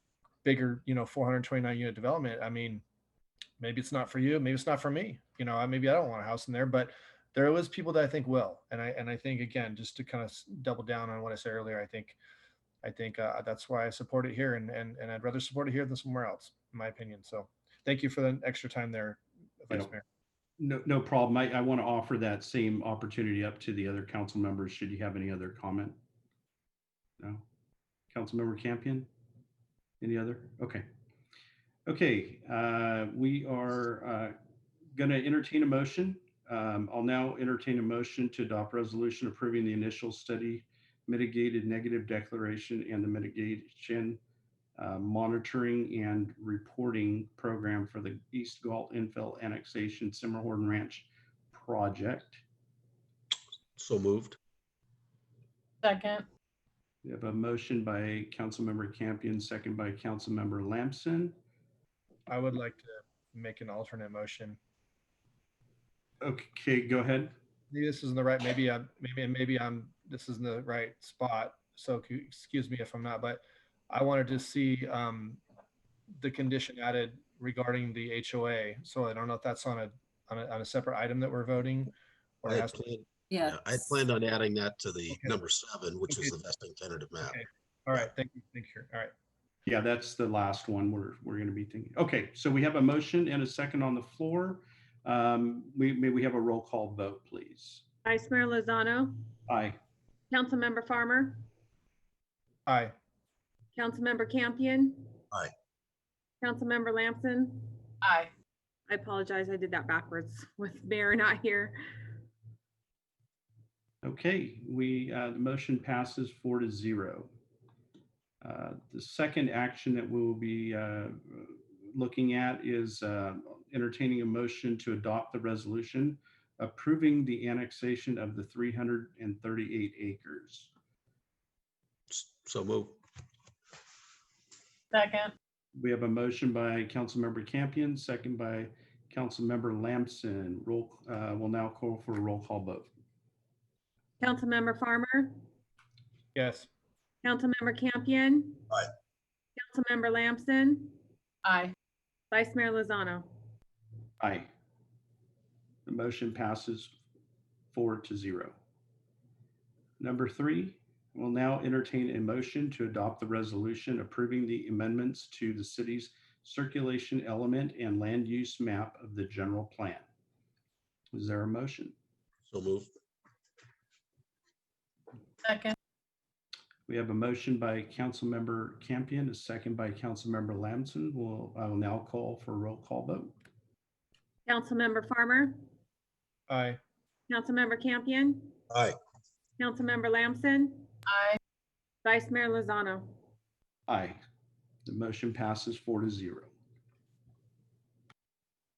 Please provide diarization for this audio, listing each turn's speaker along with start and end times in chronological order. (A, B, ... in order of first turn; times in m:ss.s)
0:00.4-0:02.8 A
0:03.6-0:12.2 A
0:12.8-0:20.0 A
0:20.6-0:26.0 B
0:27.2-0:27.4 B
0:28.1-0:29.1 B
0:30.0-0:30.8 B
0:31.9-0:34.3 B
0:34.9-0:44.2 B
0:44.8-0:52.4 B
0:53.8-0:54.4 C
0:55.8-0:56.2 D
0:57.0-1:01.4 B
1:02.3-1:04.6 A
1:06.2-1:07.3 B
1:07.7-1:15.4 A
1:16.2-1:22.9 A
1:22.4-1:27.4 C
1:25.1-1:25.4 A
1:27.2-1:29.1 A
1:29.6-1:37.8 B
1:38.0-1:39.3 E
1:39.5-1:39.8 B
1:40.3-1:41.4 E
1:42.7-1:42.9 A
1:43.7-1:45.2 E
1:46.4-1:47.9 E
1:48.0-1:48.3 D
1:48.9-1:51.8 E
1:54.0-1:57.3 B
1:58.4-2:10.7 B
2:12.1-2:13.0 C
2:14.9-2:15.3 D
2:15.8-2:22.9 B
2:24.2-2:25.4 E
2:26.3-2:26.7 A
2:27.2-2:28.7 E
2:29.6-2:31.0 E
2:31.4-2:31.7 D
2:32.3-2:33.5 E
2:34.2-2:34.5 B
2:35.8-2:36.9 B
2:37.7-2:38.6 B
2:40.0-2:50.0 B
2:51.1-2:51.9 B
2:52.5-2:52.9 C
2:55.4-2:55.7 D
2:56.9-3:03.3 B
3:04.4-3:05.6 E
3:06.5-3:06.8 A
3:07.3-3:08.6 E
3:08.7-3:09.0 C
3:09.6-3:10.9 E
3:11.1-3:11.4 D
3:12.0-3:13.2 E
3:13.9-3:14.2 B
3:14.8-3:16.5 B